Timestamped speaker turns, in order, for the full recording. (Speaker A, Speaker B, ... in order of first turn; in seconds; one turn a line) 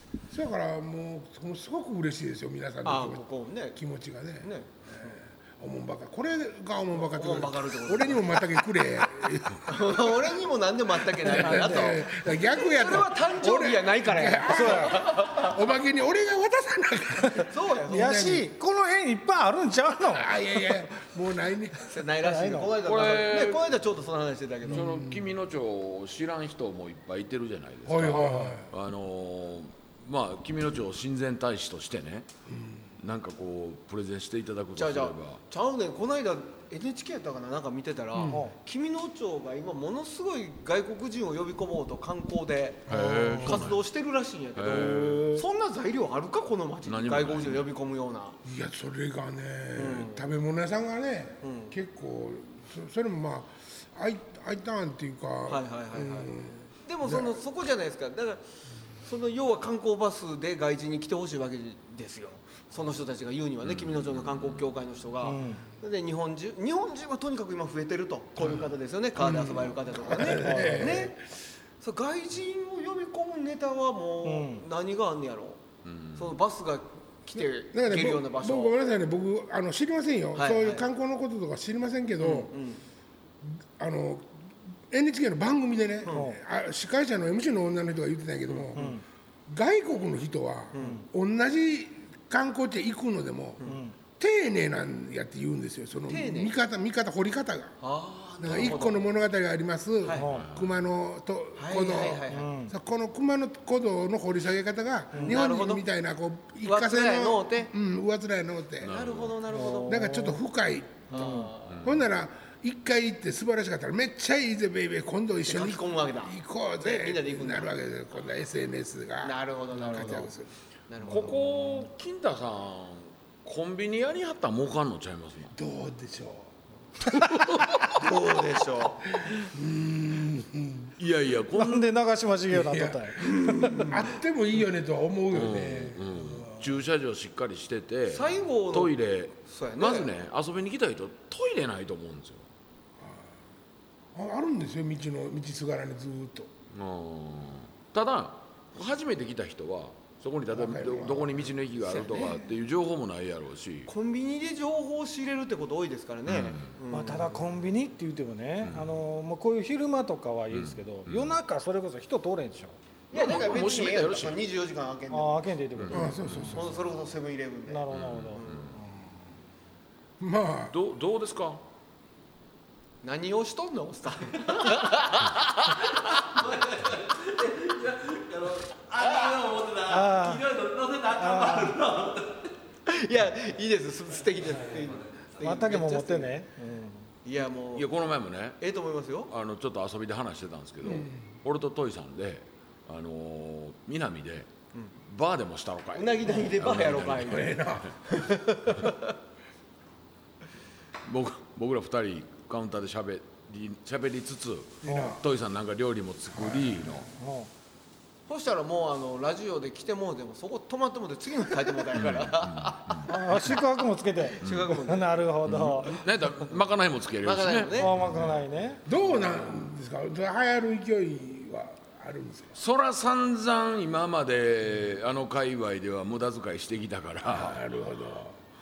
Speaker A: 0.3-10.4
Speaker B: 2.9-3.8
Speaker B: 4.4-5.1
Speaker B: 7.0-8.6
Speaker B: 9.7-15.5
Speaker A: 11.1-18.5
Speaker C: 11.2-12.1
Speaker C: 14.5-15.0
Speaker B: 17.4-18.3
Speaker C: 17.9-20.8
Speaker A: 20.0-22.1
Speaker B: 21.9-24.9
Speaker C: 22.2-22.8
Speaker D: 22.8-23.8
Speaker A: 24.7-25.3
Speaker D: 24.7-32.3
Speaker A: 27.9-28.7
Speaker C: 28.1-28.6
Speaker A: 32.5-32.9
Speaker D: 33.0-35.4
Speaker B: 34.8-48.4
Speaker A: 38.1-38.4
Speaker D: 42.9-43.8
Speaker A: 42.9-43.7
Speaker D: 44.5-45.3
Speaker C: 44.6-45.5
Speaker D: 46.9-47.7
Speaker A: 48.5-57.4
Speaker B: 49.8-50.3
Speaker B: 51.4-51.7
Speaker B: 55.5-58.4
Speaker B: 59.0-75.6
Speaker D: 63.6-64.7
Speaker C: 65.2-65.6
Speaker A: 69.2-71.2
Speaker C: 70.2-71.1
Speaker C: 74.2-74.7
Speaker D: 75.8-76.3
Speaker B: 76.2-78.8
Speaker A: 77.7-82.5
Speaker B: 80.3-80.9
Speaker B: 82.2-82.8
Speaker A: 83.5-84.3
Speaker A: 84.9-97.8
Speaker C: 86.1-86.4
Speaker C: 88.8-89.0
Speaker B: 90.7-91.0
Speaker C: 93.6-94.0
Speaker B: 96.1-96.5
Speaker B: 97.8-99.0
Speaker A: 98.4-109.0
Speaker B: 100.0-100.3
Speaker C: 100.2-100.5
Speaker D: 100.3-100.7
Speaker B: 101.6-102.5
Speaker C: 102.3-102.7
Speaker C: 105.1-105.4
Speaker B: 105.2-105.8
Speaker B: 106.7-107.7
Speaker D: 108.8-109.4
Speaker B: 108.9-110.1
Speaker C: 109.5-110.4
Speaker A: 109.9-111.3
Speaker C: 111.1-111.5
Speaker B: 111.1-111.9
Speaker D: 111.7-112.0
Speaker A: 111.8-120.5
Speaker B: 115.5-117.8
Speaker B: 119.2-120.3
Speaker B: 120.9-121.4
Speaker D: 121.0-125.5
Speaker A: 125.5-126.5
Speaker A: 127.1-128.2
Speaker D: 127.2-127.9
Speaker B: 127.9-129.1
Speaker A: 129.1-130.9
Speaker D: 131.0-131.9
Speaker C: 131.5-133.9
Speaker A: 132.5-136.8
Speaker B: 133.5-134.0
Speaker D: 135.3-142.5
Speaker B: 138.1-140.1
Speaker A: 144.2-146.5
Speaker D: 146.7-153.9
Speaker A: 150.5-152.5
Speaker B: 153.9-157.4
Speaker D: 156.3-156.7
Speaker C: 156.9-162.8
Speaker D: 158.6-158.9
Speaker D: 160.5-161.4
Speaker B: 163.1-165.5
Speaker D: 163.1-164.5
Speaker C: 165.1-166.4
Speaker D: 165.8-166.5
Speaker A: 165.9-166.8
Speaker B: 166.5-168.7
Speaker C: 167.7-168.8
Speaker D: 167.9-168.7
Speaker A: 170.2-170.7
Speaker D: 170.7-171.6
Speaker B: 173.0-175.4
Speaker E: 175.7-182.5
Speaker C: 179.9-180.5
Speaker C: 181.2-181.8
Speaker B: 182.9-186.4
Speaker E: 184.8-185.3
Speaker C: 185.4-187.1
Speaker B: 187.2-187.9
Speaker D: 187.7-188.6
Speaker B: 188.6-189.3
Speaker D: 189.3-197.9
Speaker A: 190.8-191.2
Speaker B: 195.9-199.1
Speaker A: 197.2-198.0
Speaker D: 201.0-207.1
Speaker A: 204.8-205.2
Speaker C: 204.8-205.2
Speaker A: 206.3-207.1
Speaker C: 207.2-207.5
Speaker B: 208.3-213.6
Speaker D: 211.9-213.5
Speaker C: 213.1-216.1
Speaker B: 214.3-215.3
Speaker D: 214.4-214.8
Speaker D: 215.4-218.3
Speaker B: 217.2-218.0
Speaker C: 217.8-218.8
Speaker A: 218.8-222.6
Speaker D: 222.6-227.6
Speaker A: 227.3-228.4